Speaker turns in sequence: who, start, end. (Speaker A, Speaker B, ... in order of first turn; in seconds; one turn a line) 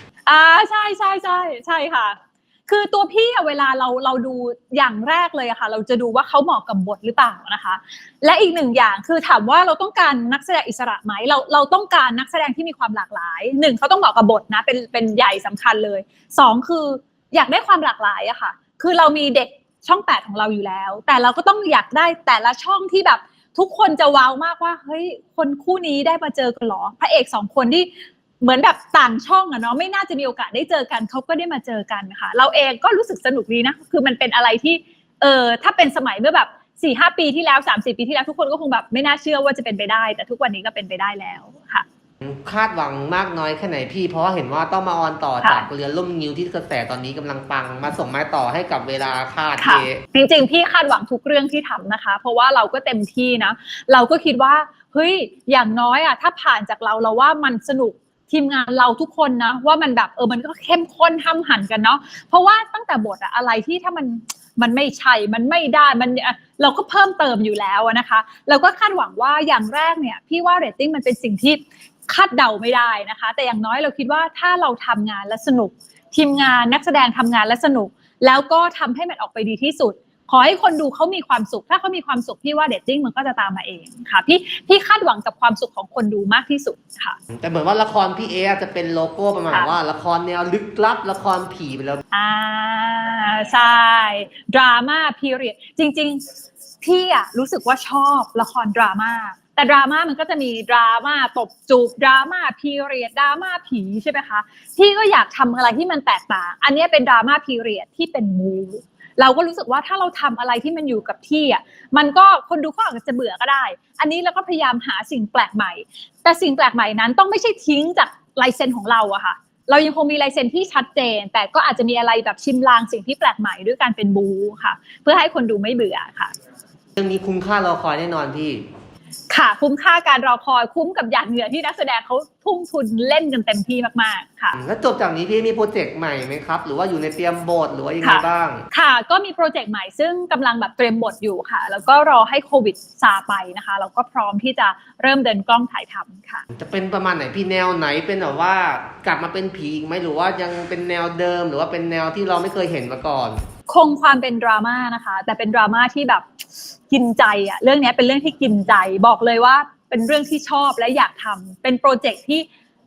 Speaker A: 0.2-41.9
Speaker B: 42.2-50.0
Speaker A: 45.4-45.7
Speaker A: 49.6-87.2
Speaker B: 87.3-92.0
Speaker A: 92.1-96.2
Speaker A: 96.8-126.3
Speaker B: 127.0-128.6
Speaker A: 129.3-134.6
Speaker B: 134.5-138.6
Speaker A: 138.0-146.4
Speaker B: 146.5-153.4
Speaker A: 153.7-156.3
Speaker A: 156.9-162.5